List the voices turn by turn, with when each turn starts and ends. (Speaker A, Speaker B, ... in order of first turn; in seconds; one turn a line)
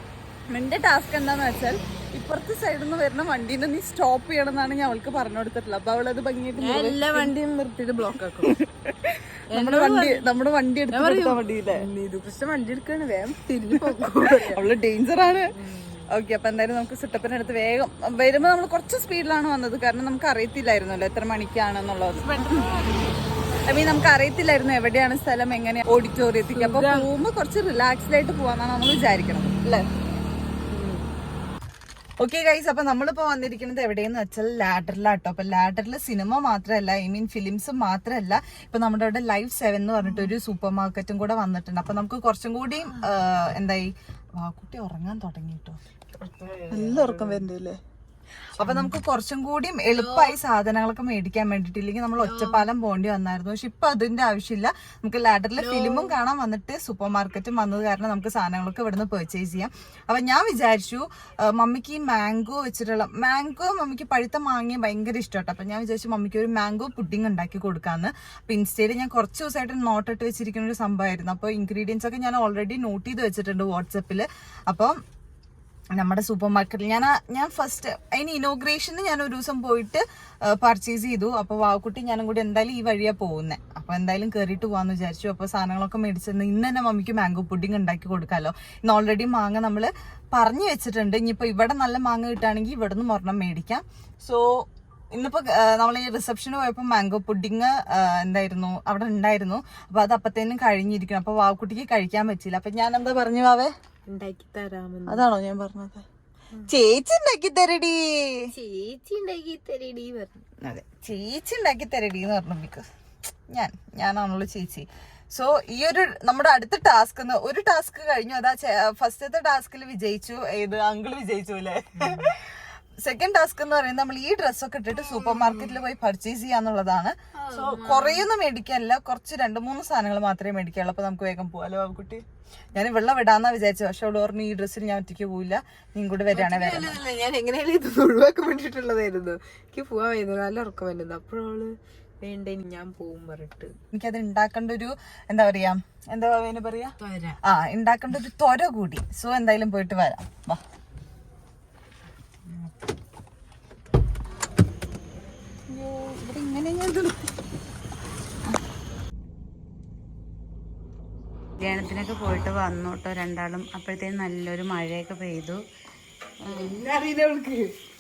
Speaker A: 0.5-7.3
Speaker B: 6.6-8.6
Speaker A: 8.5-11.9
Speaker B: 9.5-10.3
Speaker B: 10.9-14.7
Speaker A: 14.3-15.5
Speaker B: 15.5-16.1
Speaker A: 16.1-22.7
Speaker B: 22.2-23.2
Speaker A: 23.7-29.9
Speaker B: 26.5-27.1
Speaker B: 30.7-31.1
Speaker A: 32.2-45.8
Speaker B: 46.2-47.5
Speaker A: 46.7-47.8
Speaker A: 48.6-75.0
Speaker B: 48.6-48.9
Speaker B: 49.9-50.4
Speaker B: 52.2-52.6
Speaker B: 55.6-56.1
Speaker A: 76.0-103.7
Speaker B: 104.1-105.2
Speaker A: 105.1-106.0
Speaker A: 106.7-108.4
Speaker B: 108.5-110.4
Speaker A: 110.7-112.9
Speaker A: 113.5-132.2
Speaker B: 127.4-128.3
Speaker A: 132.7-137.0
Speaker B: 136.3-143.8
Speaker A: 143.9-150.6
Speaker B: 147.0-147.4
Speaker A: 155.7-157.2
Speaker C: 161.6-165.6
Speaker B: 166.4-167.8
Speaker C: 166.5-166.8